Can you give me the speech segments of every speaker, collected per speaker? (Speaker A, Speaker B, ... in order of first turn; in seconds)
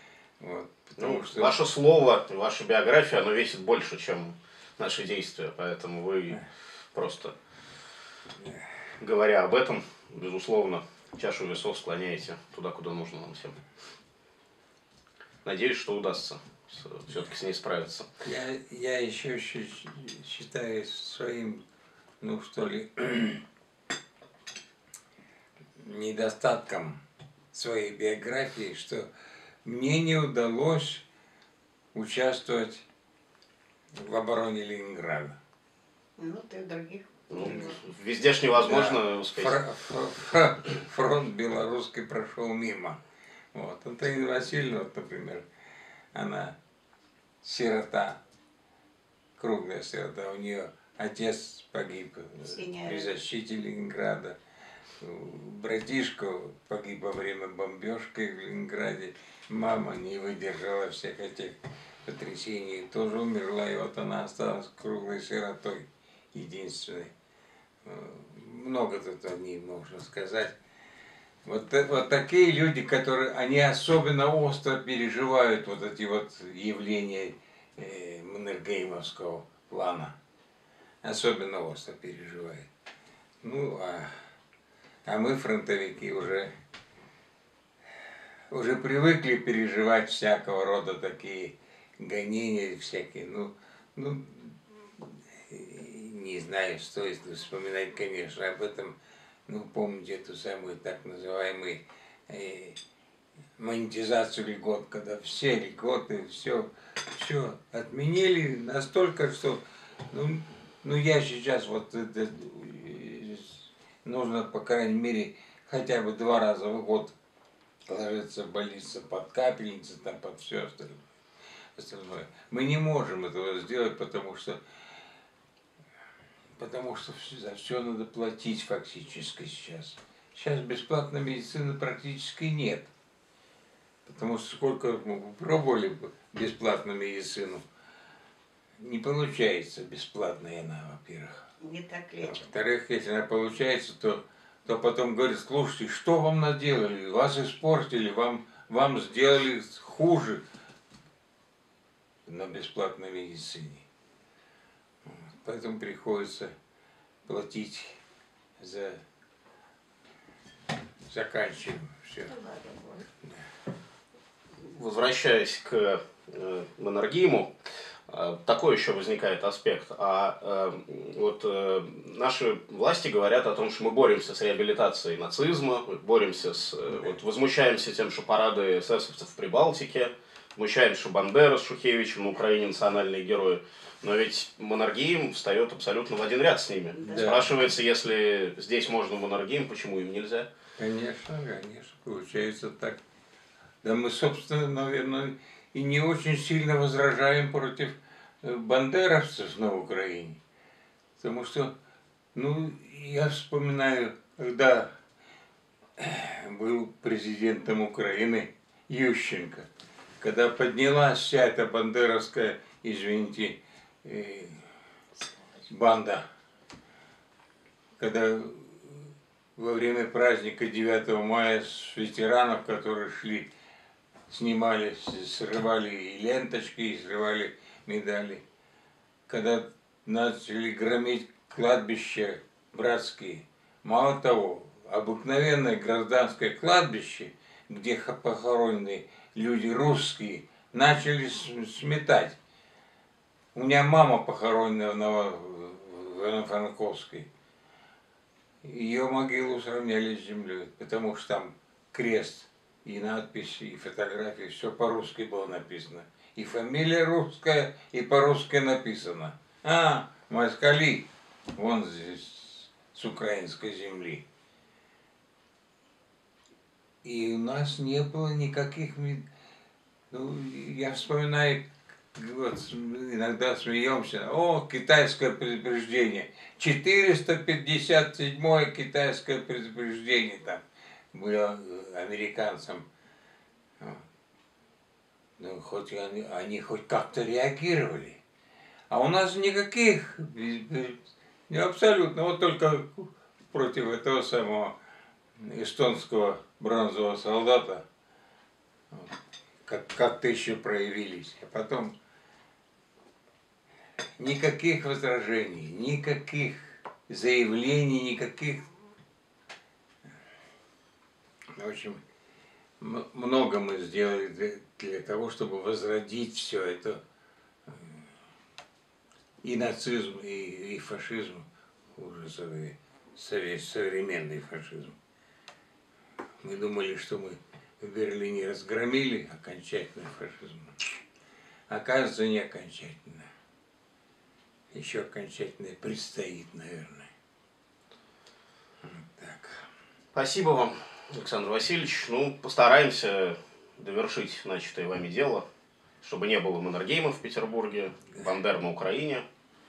Speaker A: 0.4-1.6, 18.2-21.6, 22.2-23.4, 25.8-27.0, 27.5-29.1, 29.6-31.0, 31.9-32.9, 34.0-35.4, 38.6-43.0, 43.5-45.5, 46.1-46.6, 47.4-48.2, 49.4-54.4, 55.0-67.1, 67.8-70.5, 71.4-80.1, 81.0-82.7, 83.4-84.1, 85.0-86.5, 88.5-99.0, 99.5-102.8, 103.6-117.2, 117.9-121.0, 121.8-124.6, 126.6-132.9, 134.1-137.6, 138.8-141.5, 142.2-150.4, 152.3-153.8, 155.1-156.5, 157.3-158.0, 158.6-159.0, 161.1-162.5, 187.1-187.4, 190.8-193.0, 193.8-200.4, 201.2-201.7, 202.3-204.9, 206.0-209.7, 210.2-214.6, 215.7-216.2, 218.0-223.5, 224.3-228.4, 229.3-242.4, 243.5-247.3, 248.6-264.2, 267.0-269.2, 270.1-280.6, 281.1-282.9, 285.4-288.2, 288.9-294.8, 295.4-297.8, 299.6-301.9, 304.2-308.7, 311.6-312.0, 312.8-317.0, 319.4-324.9, 326.4-331.0, 331.7-333.3, 334.7-337.1, 338.8-339.6
Speaker B: 1.0-7.3, 9.0-13.6, 15.4-18.1, 37.3-39.6, 164.6-167.5, 168.1-190.5, 340.1-345.4, 346.0-349.2
Speaker C: 36.2-37.5, 52.5-53.1, 141.6-142.4, 162.3-163.0